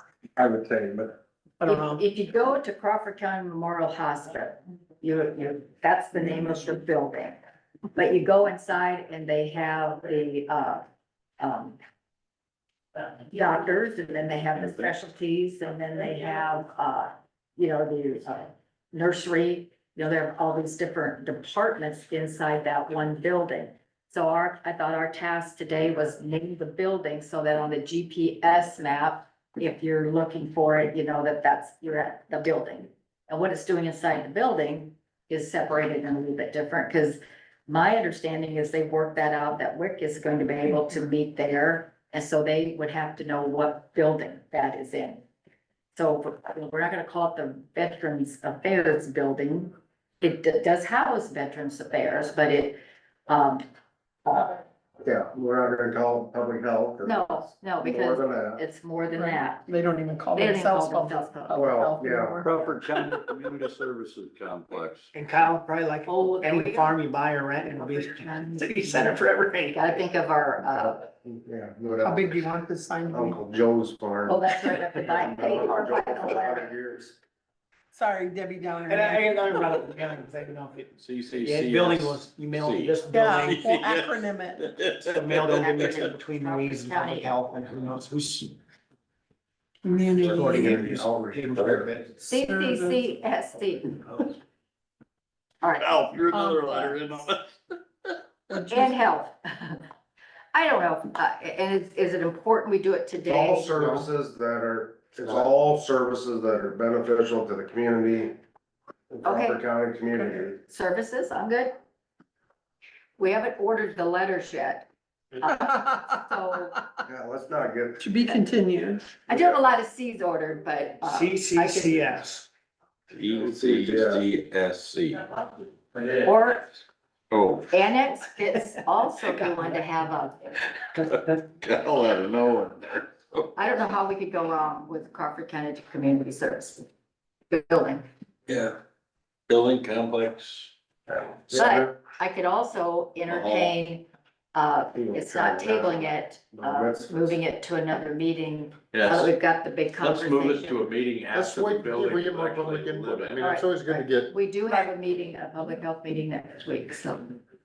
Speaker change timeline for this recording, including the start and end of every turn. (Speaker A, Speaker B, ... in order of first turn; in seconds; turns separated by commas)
Speaker A: 0.3-1.2, Speaker B: 1.6-2.0, Speaker C: 1.6-7.3, Speaker C: 7.9-10.8, Speaker C: 11.4-11.8, Speaker C: 13.3-45.2, Speaker C: 45.9-53.6, Speaker C: 54.2-54.6, Speaker A: 55.0-58.6, Speaker C: 57.0-59.7, Speaker B: 59.1-62.5, Speaker C: 60.3-61.7, Speaker A: 61.5-62.4, Speaker D: 62.4-65.1, Speaker E: 65.1-69.9, Speaker C: 66.0-67.0, Speaker C: 68.2-69.1, Speaker C: 69.7-71.1, Speaker A: 70.7-72.5, Speaker B: 72.0-73.4, Speaker A: 73.1-77.2, Speaker C: 74.2-76.7, Speaker B: 77.9-79.8, Speaker E: 78.9-83.7, Speaker D: 81.0-86.0, Speaker B: 83.1-84.6, Speaker E: 85.1-88.5, Speaker C: 85.4-87.4, Speaker B: 89.8-90.8, Speaker E: 90.2-92.2, Speaker A: 90.2-91.9, Speaker B: 92.2-93.0, Speaker C: 92.2-94.3, Speaker C: 95.6-96.0, Speaker D: 95.7-97.4, Speaker B: 96.3-97.0, Speaker B: 98.5-98.9, Speaker C: 98.7-99.8, Speaker C: 100.5-104.0, Speaker A: 103.3-108.4, Speaker A: 109.1-110.6, Speaker C: 109.2-109.6, Speaker C: 110.6-111.7, Speaker C: 113.2-114.9, Speaker B: 115.4-117.0, Speaker C: 116.0-116.8, Speaker A: 117.0-118.1, Speaker B: 118.0-119.2, Speaker C: 119.3-122.2, Speaker A: 119.3-119.6, Speaker E: 121.0-122.5, Speaker D: 123.1-125.3, Speaker A: 123.6-124.2, Speaker C: 126.2-126.7, Speaker D: 127.3-127.7, Speaker C: 127.7-130.3, Speaker E: 130.9-131.4, Speaker D: 131.1-133.5, Speaker C: 133.5-136.8, Speaker C: 137.5-138.1, Speaker D: 138.5-138.8, Speaker D: 139.5-140.7, Speaker A: 141.1-141.9, Speaker C: 141.5-150.9, Speaker D: 143.3-143.8, Speaker A: 144.9-147.4, Speaker D: 148.9-149.3, Speaker D: 150.0-153.5, Speaker A: 151.3-154.3, Speaker C: 153.4-157.4